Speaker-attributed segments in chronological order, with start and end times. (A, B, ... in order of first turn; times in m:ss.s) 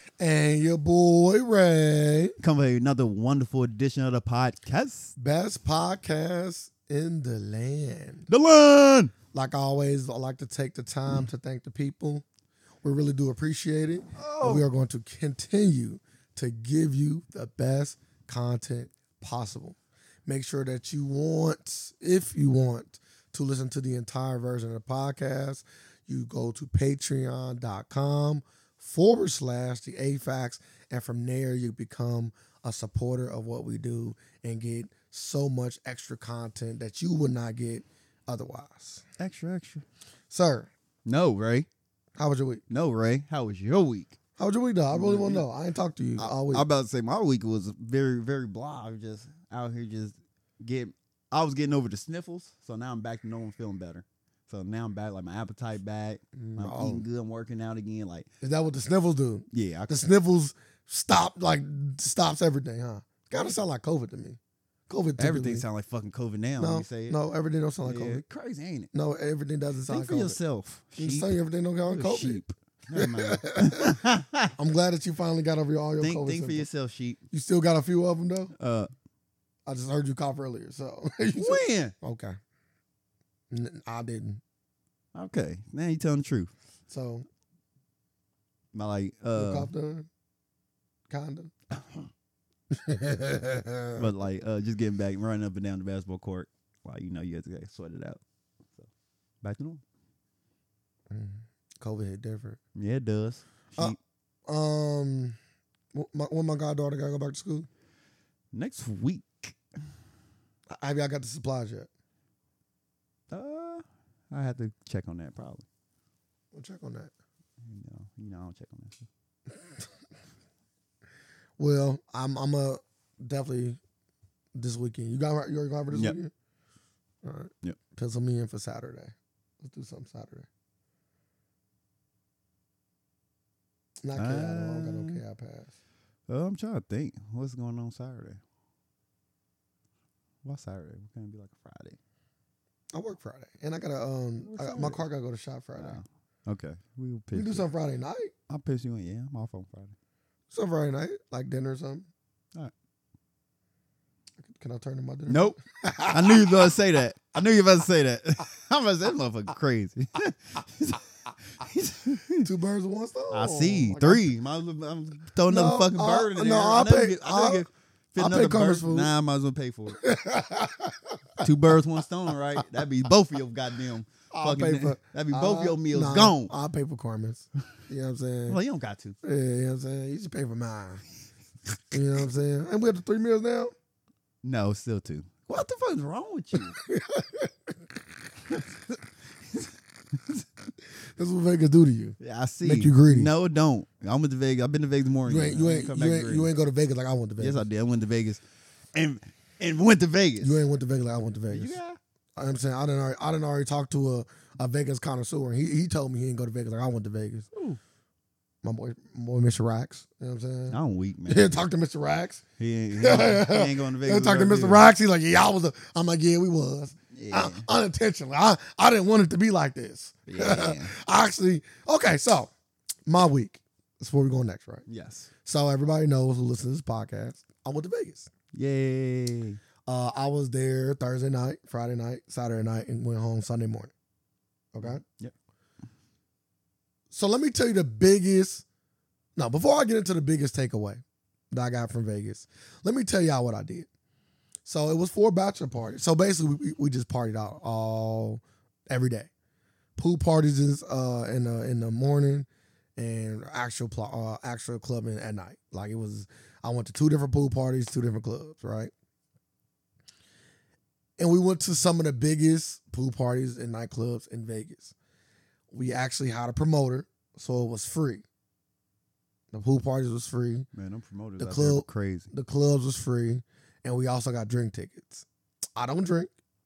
0:00.2-0:02.3 A
0:02.4-0:05.1 B
0:05.2-0:08.3 A
0:08.3-0:09.1 B
0:09.3-0:12.2 A
0:12.8-0:39.0 A
0:14.2-0:14.6 B
0:39.2-0:39.8 B
0:40.3-0:40.7 A
0:41.0-0:41.7 B
0:42.2-0:42.6 A
0:42.7-0:44.2 B
0:44.4-0:46.6 A
0:44.9-0:45.4 B
0:46.2-0:58.3 B
0:56.4-0:57.0 A
0:58.4-1:05.6 A
0:59.5-0:59.9 B
1:03.3-1:03.6 B
1:05.2-1:07.2 B
1:06.6-1:08.2 A
1:07.8-1:08.9 B
1:08.9-1:10.4 A
1:09.9-1:14.5 B
1:11.0-1:12.4 A
1:12.9-1:14.0 A
1:14.6-1:16.7 A
1:16.0-1:17.2 B
1:17.3-1:18.5 A
1:18.6-1:18.9 B
1:19.6-1:22.4 A
1:21.4-1:21.9 B
1:23.5-1:24.4 A
1:25.1-1:26.5 B
1:26.9-1:27.2 A
1:28.7-1:29.7 B
1:29.3-1:30.1 A
1:31.1-1:31.5 A
1:31.7-1:32.1 B
1:32.7-1:34.1 A
1:33.9-1:38.2 B
1:39.4-1:39.8 B
1:41.1-1:42.6 A
1:42.7-1:44.0 B
1:44.5-1:45.4 A
1:45.9-1:47.7 A
1:48.5-1:49.6 B
1:50.7-1:51.9 A
1:53.3-1:55.6 B
1:56.5-1:57.1 A
1:57.6-1:59.1 B
2:01.6-2:03.8 A
2:04.5-2:06.3 A
2:05.9-2:06.2 B
2:07.2-2:10.5 A
2:14.0-2:15.7 A
2:14.2-2:15.2 B
2:16.3-2:18.4 B
2:20.4-2:22.0 B
2:22.9-2:26.0 A
2:24.4-2:25.0 B
2:25.8-2:27.7 B
2:27.3-2:28.3 A
2:28.5-2:29.9 B
2:30.5-2:32.1 A
2:34.5-2:36.8 A
2:35.3-2:42.5 B
2:42.4-2:44.2 A
2:43.3-2:50.0 B
2:45.5-2:47.6 A
2:48.2-2:49.1 A
2:50.0-2:51.8 A
2:51.4-2:56.5 B
2:54.3-2:58.6 A
2:58.5-2:59.2 B
2:59.2-3:01.0 A
3:01.9-3:03.7 A
3:04.4-3:06.8 B
3:06.6-3:07.5 A
3:08.5-3:10.4 B
3:11.2-3:13.3 A
3:12.2-3:16.5 B
3:15.2-3:17.6 A
3:17.4-3:18.4 B
3:18.9-3:20.6 B
3:20.4-3:21.8 A
3:21.5-3:22.0 B
3:22.4-3:27.5 A
3:27.5-3:27.8 B
3:28.6-3:32.4 A
3:30.7-3:31.6 B
3:32.6-3:34.9 B
3:33.0-3:42.5 A
3:37.1-3:37.7 B
3:40.3-3:40.9 B
3:43.0-3:44.8 A
3:44.9-3:45.3 B
3:45.4-3:48.3 A
3:48.5-3:49.6 B
3:49.8-3:53.9 A
3:54.7-3:55.0 A
3:54.8-3:55.3 B
3:57.1-3:58.6 A
3:59.4-4:03.9 A
4:04.6-4:09.3 A
4:10.0-4:18.9 A
4:21.2-4:24.9 A
4:25.7-4:28.2 A
4:29.5-4:30.7 A
4:30.7-4:32.3 B
4:31.4-4:35.2 A
4:35.8-4:36.3 A